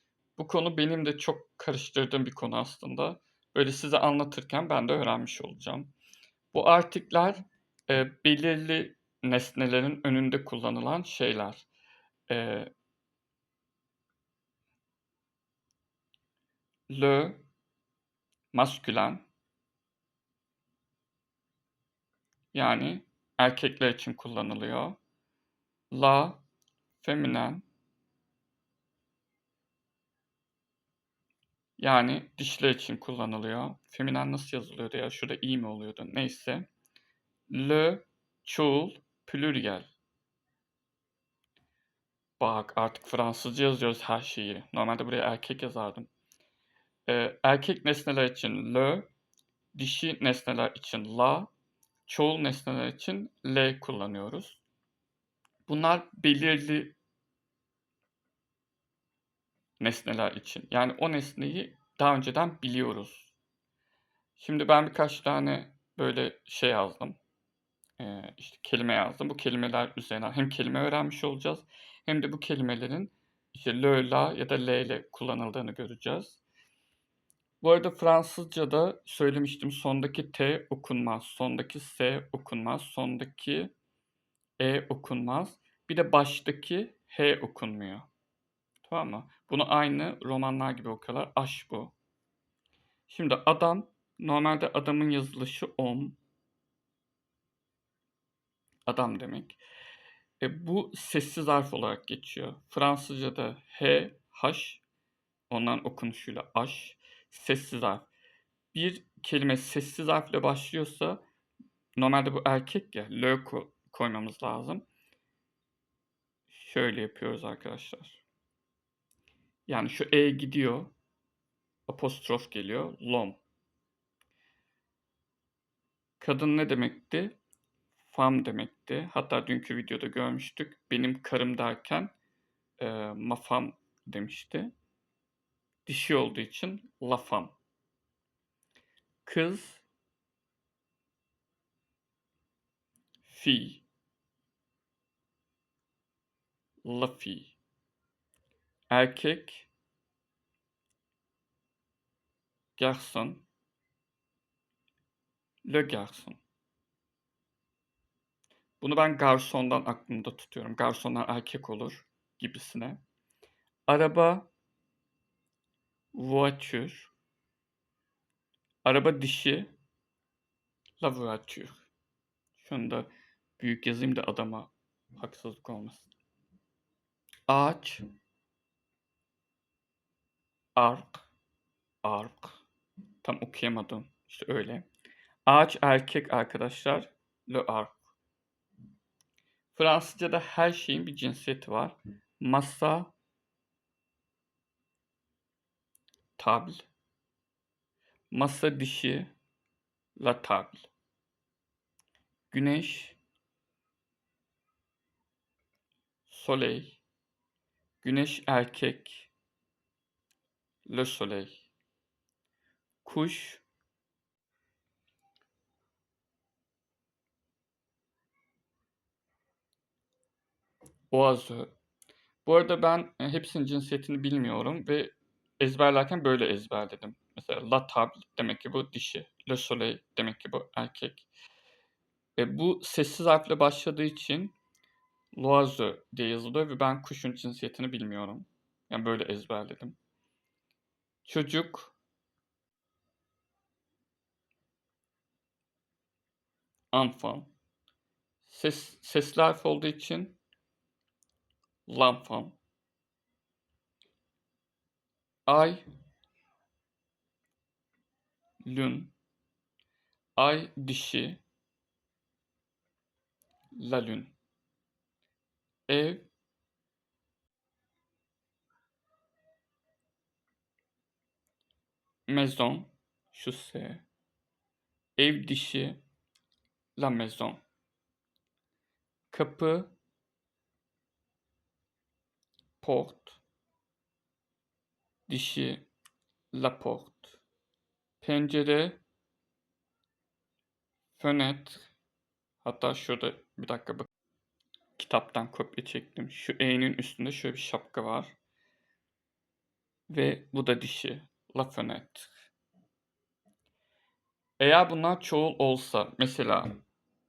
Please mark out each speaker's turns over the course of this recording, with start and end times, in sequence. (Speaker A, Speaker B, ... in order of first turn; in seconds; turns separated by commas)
Speaker A: 0.4-5.9, Speaker A: 6.5-11.7, Speaker A: 12.3-12.7, Speaker A: 16.9-17.4, Speaker A: 18.5-19.2, Speaker A: 22.5-25.0, Speaker A: 25.9-26.4, Speaker A: 27.0-27.6, Speaker A: 31.8-36.7, Speaker A: 37.5-39.9, Speaker A: 42.4-46.1, Speaker A: 47.1-49.1, Speaker A: 49.7-51.5, Speaker A: 52.0-54.6, Speaker A: 55.7-57.0, Speaker A: 59.8-63.3, Speaker A: 64.3-67.2, Speaker A: 68.0-76.4, Speaker A: 77.6-83.7, Speaker A: 84.6-88.1, Speaker A: 88.8-91.9, Speaker A: 93.1-96.2, Speaker A: 98.9-99.6, Speaker A: 100.4-104.8, Speaker A: 105.5-108.1, Speaker A: 108.7-111.2, Speaker A: 112.0-114.8, Speaker A: 116.5-118.2, Speaker A: 119.7-120.9, Speaker A: 121.9-123.4, Speaker A: 126.2-127.4, Speaker A: 128.0-132.1, Speaker A: 132.8-134.7, Speaker A: 135.8-137.5, Speaker A: 139.2-139.8, Speaker A: 143.2-143.8, Speaker A: 146.8-147.6, Speaker A: 148.9-149.7, Speaker A: 152.8-153.4, Speaker A: 155.6-156.4, Speaker A: 158.8-163.0, Speaker A: 163.9-164.5, Speaker A: 166.1-167.1, Speaker A: 168.8-169.7, Speaker A: 171.0-171.9, Speaker A: 172.5-176.1, Speaker A: 177.5-178.0, Speaker A: 180.8-181.3, Speaker A: 182.0-182.6, Speaker A: 183.2-184.9, Speaker A: 185.4-188.1, Speaker A: 189.7-193.1, Speaker A: 196.4-196.8, Speaker A: 198.3-199.3, Speaker A: 200.2-200.9, Speaker A: 202.5-203.2, Speaker A: 206.3-207.0, Speaker A: 208.0-209.3, Speaker A: 210.8-211.7, Speaker A: 213.0-213.6, Speaker A: 221.1-221.7, Speaker A: 222.4-231.3, Speaker A: 232.4-234.5, Speaker A: 235.3-240.0, Speaker A: 241.2-241.9, Speaker A: 246.9-247.5, Speaker A: 248.4-250.4, Speaker A: 251.9-252.6, Speaker A: 255.5-255.8, Speaker A: 258.6-259.1, Speaker A: 260.4-261.4, Speaker A: 263.7-264.3, Speaker A: 265.9-266.3, Speaker A: 272.3-274.0, Speaker A: 275.2-276.0, Speaker A: 277.0-277.6, Speaker A: 279.3-279.9, Speaker A: 282.8-283.4, Speaker A: 285.3-285.9, Speaker A: 286.5-287.4, Speaker A: 288.2-289.0, Speaker A: 291.1-291.9, Speaker A: 292.6-294.1, Speaker A: 294.9-298.4, Speaker A: 300.1-302.3, Speaker A: 304.6-306.8